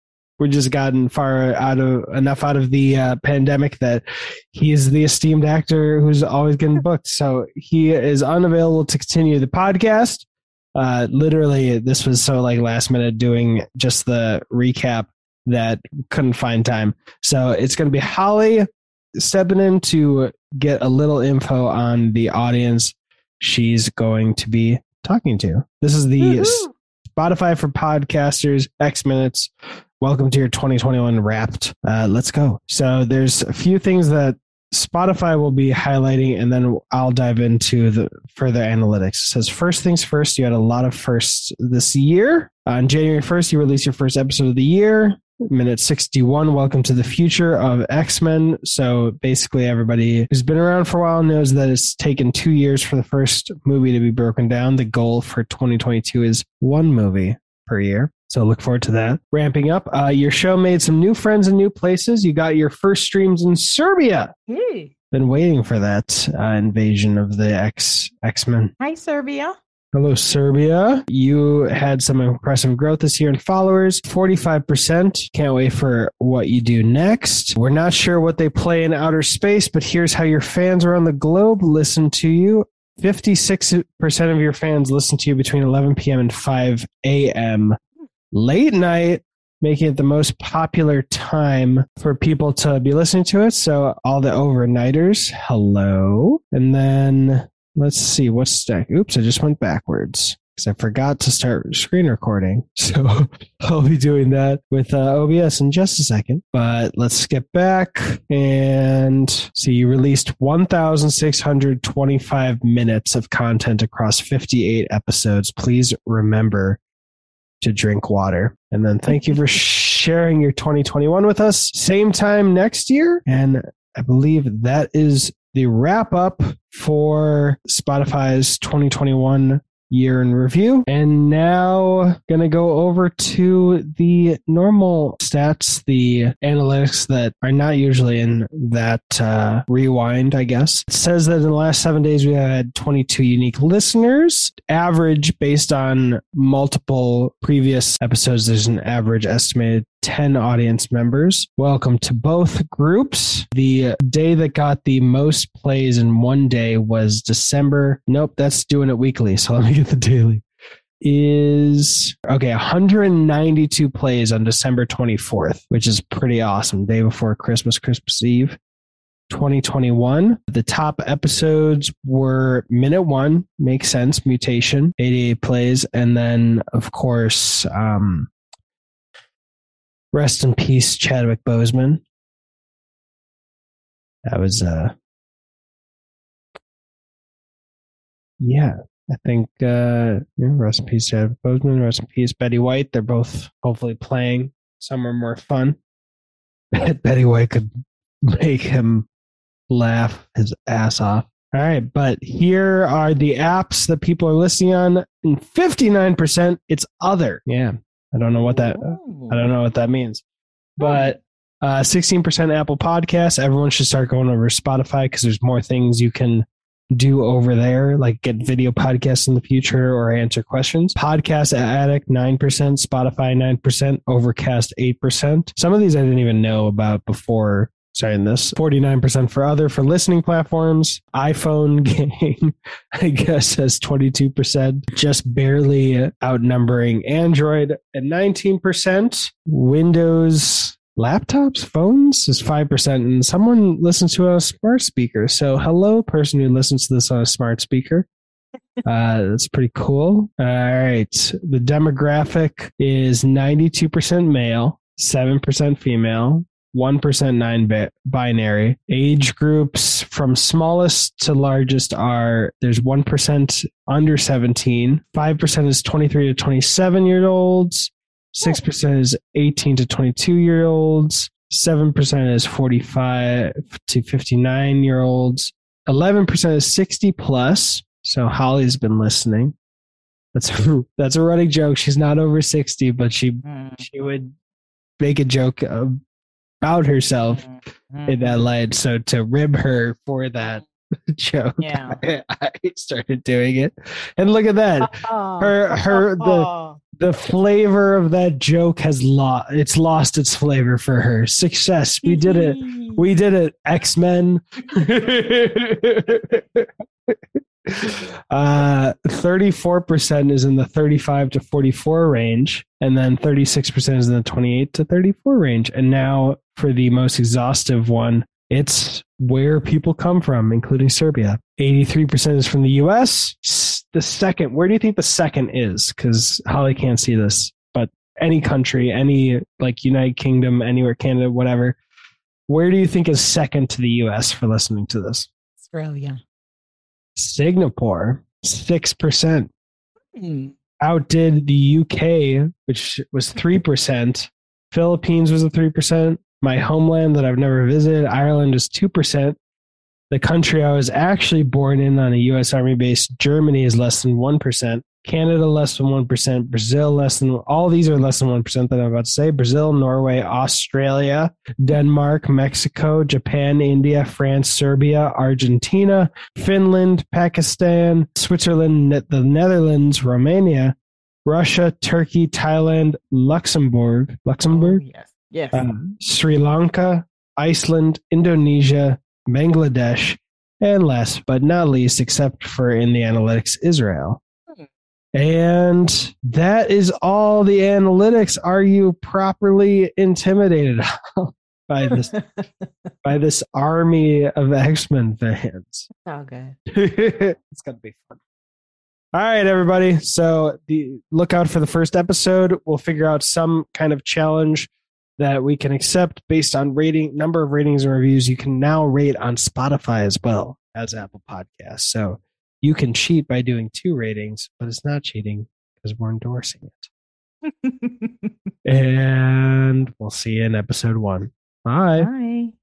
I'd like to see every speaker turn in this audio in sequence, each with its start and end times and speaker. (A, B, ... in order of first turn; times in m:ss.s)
0:00.4-0:18.6 A
0:19.2-1:04.3 A
1:04.5-1:04.9 B
1:05.1-1:08.7 A
1:08.8-1:09.6 B
1:09.9-1:27.8 A
1:28.3-1:56.8 A
1:57.6-2:40.4 A
2:41.0-2:48.6 A
2:49.3-2:58.3 A
3:00.1-3:02.0 A
3:04.3-3:04.9 A
3:08.4-3:15.8 A
3:16.8-3:17.7 A
3:18.3-3:19.1 A
3:19.7-3:30.2 A
3:28.3-3:29.5 B
3:30.8-4:08.1 A
4:08.8-4:39.5 A
4:40.3-4:44.4 A
4:43.4-4:43.8 B
4:45.0-4:45.9 A
4:46.6-4:47.4 A
4:47.3-4:48.4 B
4:48.1-4:56.5 A
4:51.6-4:52.0 B
4:54.8-4:56.8 B
4:57.0-5:07.2 A
5:02.0-5:03.0 B
5:07.7-5:31.8 A
5:32.5-5:35.3 A
5:35.6-5:36.2 B
5:37.2-5:39.5 A
5:40.1-5:40.5 B
5:40.8-5:49.4 A
5:50.1-6:14.8 A
6:14.5-6:15.6 B
6:15.5-6:24.2 A
6:25.1-6:32.1 A
6:32.1-6:32.6 B
6:33.0-6:35.9 A
6:36.0-6:36.5 B
6:36.7-6:38.2 A
6:39.1-6:56.9 A
6:57.4-6:58.3 B
6:58.6-7:02.1 A
7:02.0-7:02.5 B